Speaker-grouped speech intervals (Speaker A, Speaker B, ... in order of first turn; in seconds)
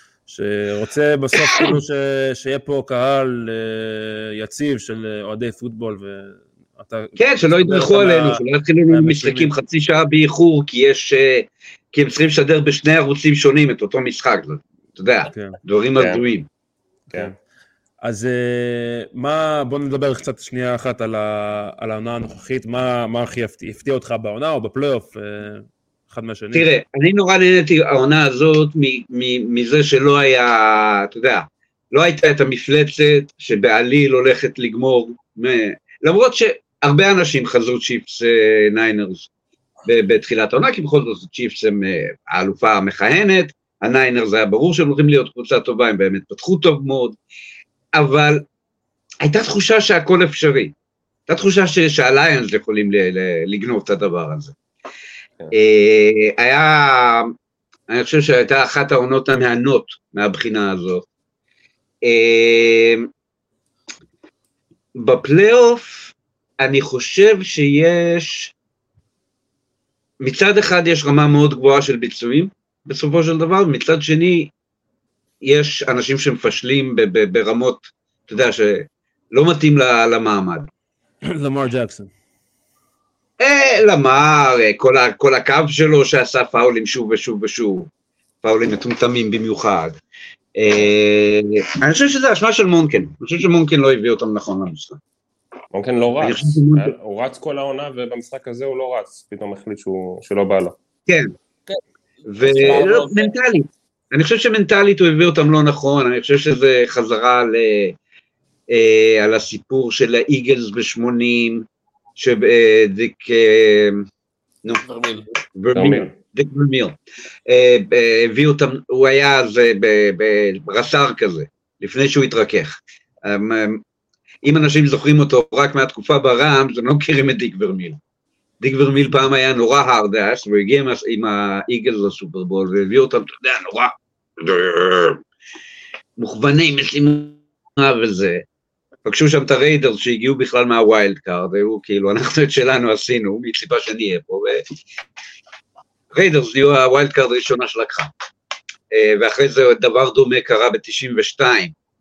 Speaker A: 0.3-9.5, 15.3-15.6, 18.0-26.6, 81.3-82.1
Speaker B: 7.2-16.5, 26.5-39.3, 39.9-47.2, 48.0-48.4, 49.2-50.7, 51.3-54.5, 55.5-57.3, 57.9-61.1, 62.0-63.1, 65.0-68.5, 70.2-74.5, 75.4-80.7, 83.4-87.9, 88.4-90.0, 90.6-95.0, 96.2-96.9, 101.1-101.3, 102.3-108.0, 108.7-111.7, 112.2-114.1, 115.5-117.0, 117.5-123.8, 124.4-128.0, 128.6-135.2, 136.2-138.4, 139.1-144.6, 146.1-148.1, 148.9-151.7
Speaker C: 16.0-16.2, 95.7-100.7, 115.7-116.1
Speaker D: 101.7-103.3, 114.8-115.3